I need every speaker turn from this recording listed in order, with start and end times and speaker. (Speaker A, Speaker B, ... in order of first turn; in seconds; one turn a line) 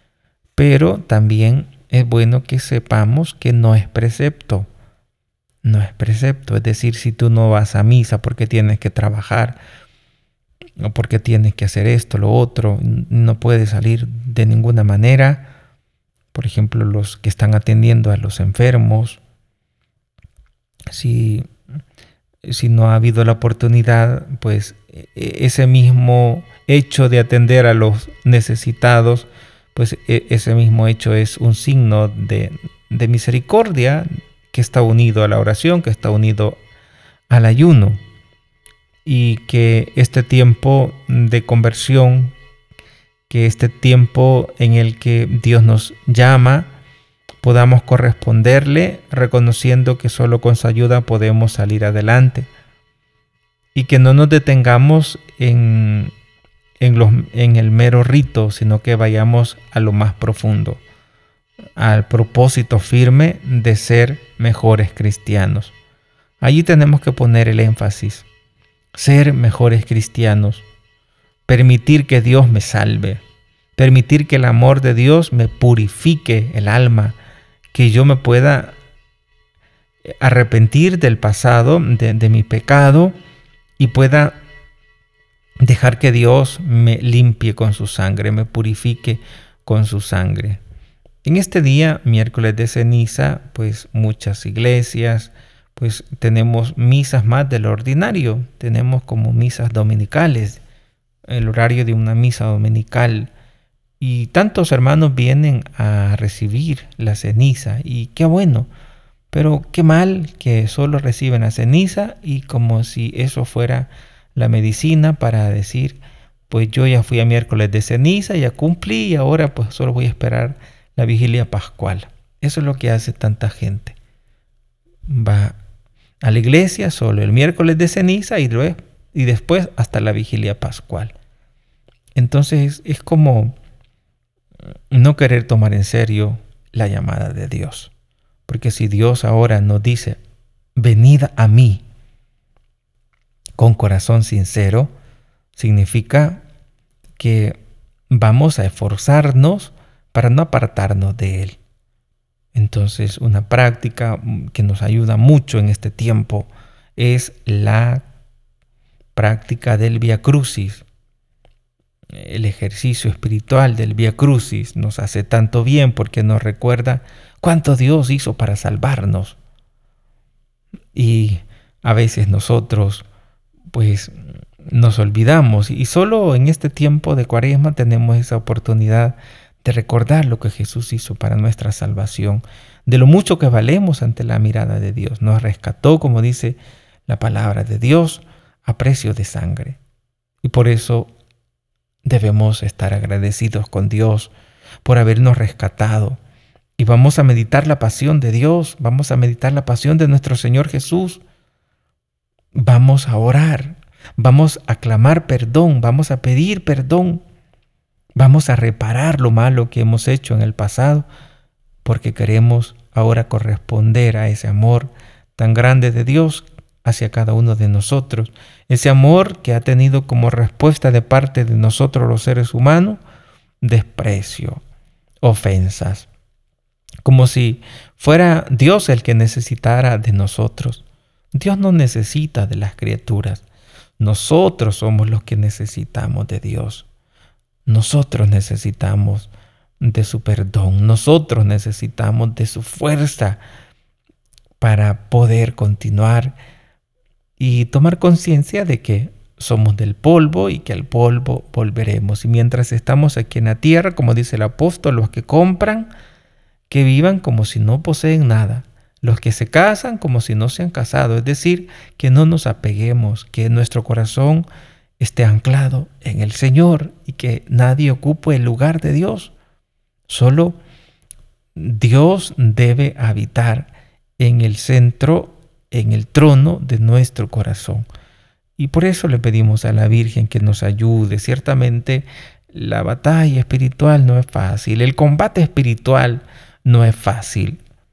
Speaker A: 0.6-4.7
Speaker A: 5.6-9.6
Speaker A: 10.8-15.5
Speaker A: 16.3-19.2
Speaker A: 20.9-21.5
Speaker A: 22.4-36.6
Speaker A: 37.3-38.0
Speaker A: 39.0-42.4
Speaker A: 43.3-46.7
Speaker A: 47.4-52.5
Speaker A: 53.7-56.1
Speaker A: 56.8-60.8
Speaker A: 61.8-65.8
Speaker A: 66.4-68.3
Speaker A: 69.0-70.7
Speaker A: 71.5-73.2
Speaker A: 73.8-77.2
Speaker A: 77.7-78.8
Speaker A: 80.1-83.2
Speaker A: 83.8-84.4
Speaker A: 85.6-90.6
Speaker A: 91.2-100.6
Speaker A: 101.3-103.3
Speaker A: 104.0-108.7
Speaker A: 109.3-124.0
Speaker A: 125.1-125.6
Speaker A: 126.2-131.2
Speaker A: 132.2-133.6
Speaker A: 134.9-137.9
Speaker A: 138.5-140.2
Speaker A: 140.8-141.8
Speaker A: 143.6-144.9
Speaker A: 145.6-146.4
Speaker A: 147.2-147.6
Speaker A: 148.1-151.6
Speaker A: 152.5-158.1
Speaker A: 159.2-160.8
Speaker A: 162.1-169.4
Speaker A: 170.9-173.1
Speaker A: 173.7-174.2
Speaker A: 174.7-189.8
Speaker A: 190.4-191.1
Speaker A: 192.1-196.2
Speaker A: 196.8-201.2
Speaker A: 202.6-207.2
Speaker A: 208.2-211.1
Speaker A: 211.8-223.0
Speaker A: 223.6-224.6
Speaker A: 225.2-226.1
Speaker A: 227.0-233.5
Speaker A: 234.0-236.9
Speaker A: 237.7-243.4
Speaker A: 244.6-246.4
Speaker A: 247.4-255.9
Speaker A: 256.7-264.5
Speaker A: 265.0-269.4
Speaker A: 270.1-270.6
Speaker A: 271.6-277.9
Speaker A: 278.6-287.6